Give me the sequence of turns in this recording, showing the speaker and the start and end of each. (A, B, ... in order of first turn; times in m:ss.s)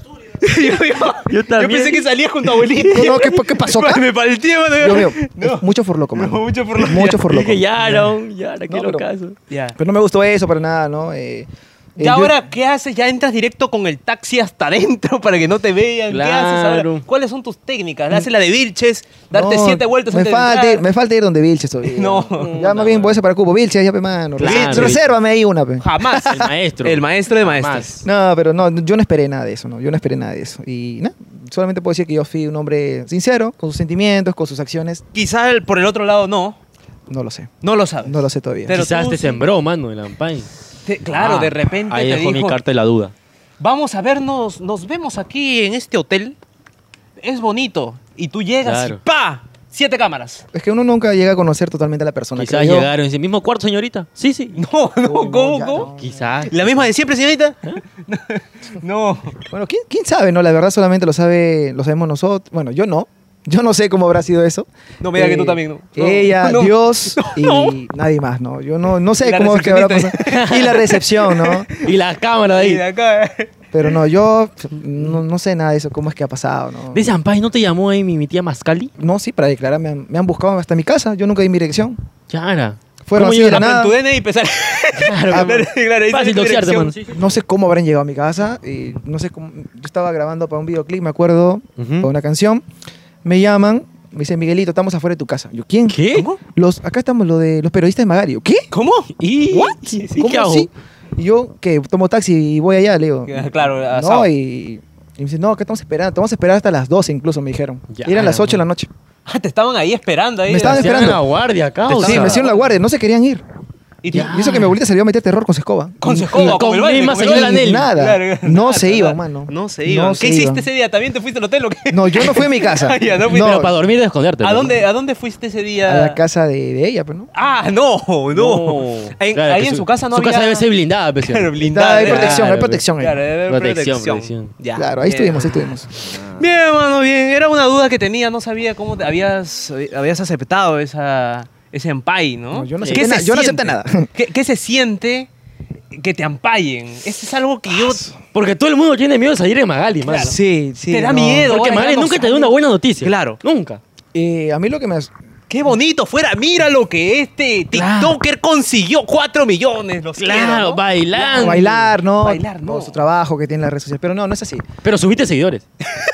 0:00.4-0:05.6 A
0:01.3-0:02.1 B
0:02.7-0:04.0 C
0:04.8-0:08.1 C
0:06.2-0:07.2 A
0:07.2-0:09.4 B
0:08.7-0:09.1 C
0:09.5-0:09.8 A
0:09.8-0:12.4 C
0:12.0-0:20.8 A
0:16.1-0:17.0 B
0:19.3-0:26.5 C
0:21.9-0:22.5 A
0:22.4-0:23.2 B
0:24.4-0:25.1 B
0:24.4-0:25.0 A
0:25.8-0:28.0 A
0:26.2-0:28.0 B
0:28.0-0:35.0 C
0:35.1-0:36.6 A
0:37.1-0:37.5 C
0:37.6-0:39.4 A
0:38.0-0:38.8 C
0:38.7-0:40.5 B
0:40.9-0:42.6 A
0:41.2-0:43.1 B
0:43.6-0:46.4 A
0:47.2-0:50.4 A
0:48.6-0:49.0 B
0:50.5-0:52.9 C
0:52.4-0:54.6 B
0:54.6-0:55.9 A
0:55.0-0:56.5 C
0:55.9-0:56.8 B
0:56.5-0:59.4 A
0:59.5-1:11.7 C
1:05.0-1:07.8 A
1:09.2-1:11.8 A
1:10.2-1:10.9 B
1:11.8-1:12.8 B
1:12.6-1:13.5 A
1:13.7-1:17.1 C
1:16.9-1:18.9 B
1:19.0-1:22.0 C
1:22.3-1:23.7 B
1:23.1-1:24.0 C
1:23.5-1:27.0 A
1:25.0-1:27.2 B
1:25.3-1:25.6 C
1:27.1-1:32.6 C
1:31.8-1:32.1 B
1:33.2-1:38.7 C
1:35.9-1:36.3 B
1:36.1-1:36.4 A
1:38.7-1:40.3 A
1:39.2-1:40.7 B
1:40.2-1:48.9 C
1:43.3-1:44.3 A
1:47.9-1:48.6 B
1:49.3-1:51.2 A
1:50.5-1:51.2 C
1:50.6-1:52.4 B
1:51.9-1:53.4 C
1:51.9-1:52.7 A
1:54.0-1:54.4 A
1:54.1-1:54.8 B
1:54.1-2:00.7 C
1:56.0-2:03.7 A
1:56.3-1:57.9 B
2:01.9-2:03.8 C
2:03.3-2:04.8 B
2:04.4-2:06.2 A
2:05.9-2:07.3 C
2:07.3-2:10.7 A
2:08.3-2:12.8 B
2:11.2-2:12.5 A
2:11.6-2:13.2 C
2:13.0-2:15.6 A
2:13.5-2:14.5 B
2:14.8-2:15.9 C
2:16.4-2:25.3 A
2:22.5-2:24.1 C
2:22.8-2:23.1 B
2:25.9-2:28.1 A
2:28.3-2:30.4 B
2:30.0-2:30.4 A
2:30.2-2:31.5 C
2:30.9-2:33.4 A
2:31.5-2:33.8 B
2:34.1-2:35.1 C
2:35.5-2:43.0 A
2:37.7-2:38.2 B
2:40.2-2:41.7 B
2:41.4-2:44.7 C
2:44.8-2:45.6 B